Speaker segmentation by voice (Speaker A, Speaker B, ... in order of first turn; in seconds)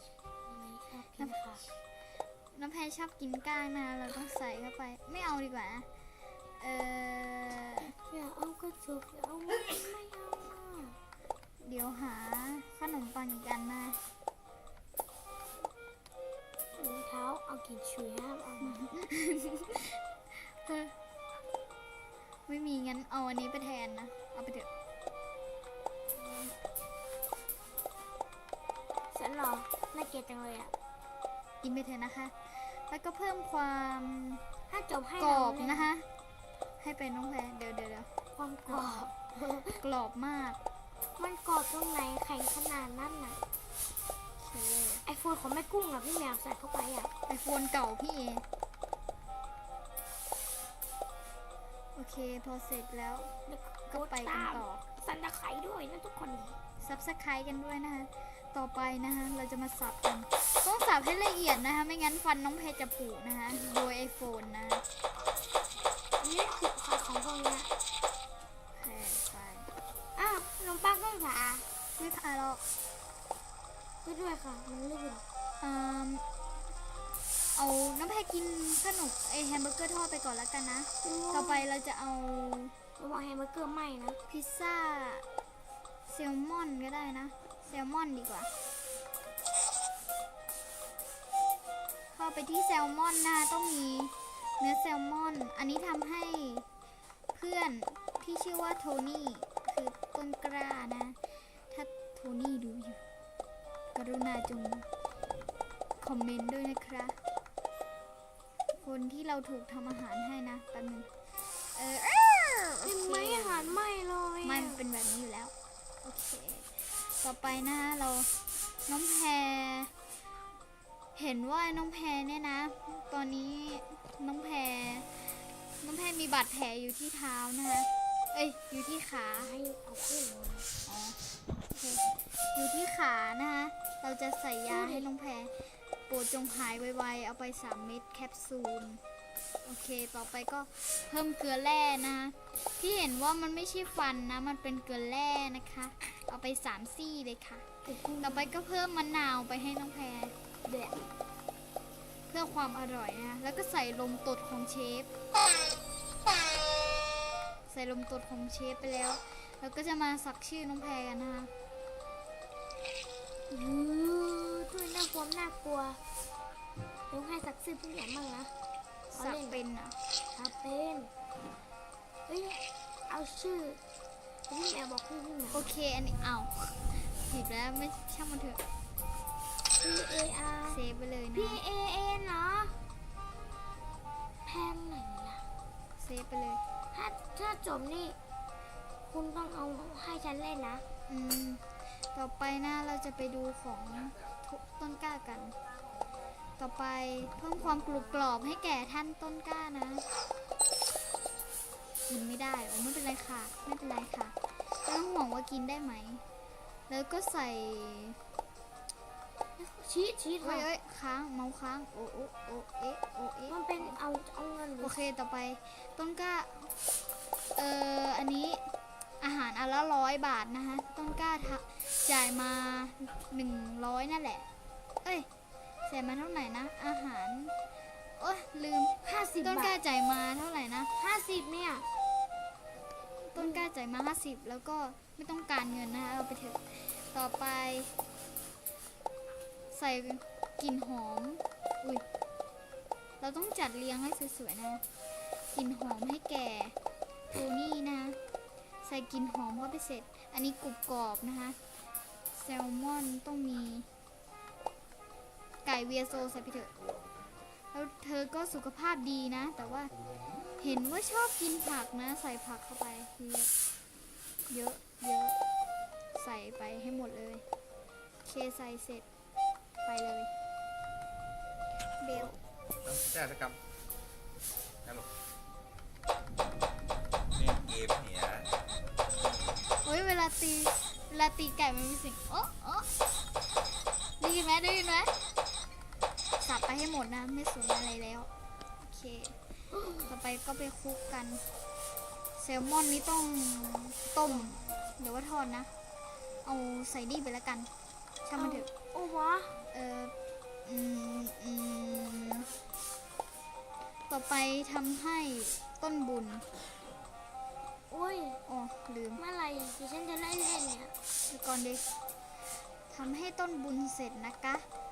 Speaker A: 0.5-1.6, 7.8-11.0, 16.7-18.9, 29.1-30.7, 34.7-35.9, 38.3-39.8, 41.2-43.4, 45.0-47.1, 53.5-56.6, 66.2-67.7, 70.2-71.7, 74.0-75.2, 81.0-81.7, 83.0-84.2, 112.8-114.8, 129.4-130.7, 134.7-135.1, 147.8-148.5, 150.6-151.1, 163.5-166.0, 167.1-168.5, 169.1-169.6, 170.3-171.1, 172.3-173.8, 174.5-175.7, 179.8-180.8, 181.3-182.8, 184.4-185.4, 186.9-188.2, 189.1-190.8, 209.6-210.7, 213.5-214.9, 229.0-229.8, 230.9-231.9, 233.3-233.7, 289.7-290.1, 294.3-294.6, 298.4-299.6, 307.9-308.4, 309.2-310.9
Speaker B: 2.5-5.9, 6.6-7.9, 11.6-14.0, 18.6-20.9, 22.5-24.7, 31.6-34.4, 35.2-36.0, 36.8-38.1, 38.7-39.1, 39.6-40.6, 44.4-45.0, 47.3-48.5, 52.0-53.3, 53.9-54.8, 56.8-64.8, 68.8-69.7, 72.0-72.6, 75.6-76.2, 77.5-82.7, 84.3-85.2, 86.1-88.5, 92.1-96.7, 97.3-101.2, 101.7-103.0, 103.9-104.8, 106.0-107.2, 108.8-111.1, 111.7-113.8, 114.4-118.3, 118.8-119.9, 121.1-129.5, 130.8-139.0, 139.6-147.7, 148.2-150.3, 152.3-155.1, 157.7-161.5, 169.1-170.0, 175.5-178.6, 180.7-181.6, 186.0-186.6, 191.1-195.6, 196.6-200.0, 202.1-206.2, 206.9-208.2, 210.4-213.9, 214.8-216.7, 217.6-218.7, 219.2-224.4, 225.8-227.6, 228.2-230.9, 233.3-237.9, 239.7-242.0, 243.2-244.8, 245.5-246.8, 247.3-248.2, 248.8-251.6, 252.3-253.9, 255.6-256.7, 257.7-259.9, 260.6-263.5, 264.5-265.4, 266.1-267.4, 268.2-269.1, 269.9-270.3, 272.0-272.4, 279.8-282.9, 284.2-285.1, 286.4-289.4, 289.9-291.4, 292.4-295.7, 296.4-297.7, 298.2-298.7, 299.7-300.1, 300.6-302.5, 304.1-306.4, 308.5-309.2, 311.3-311.8, 312.9-314.6
Speaker C: 272.8-273.6, 277.3-278.5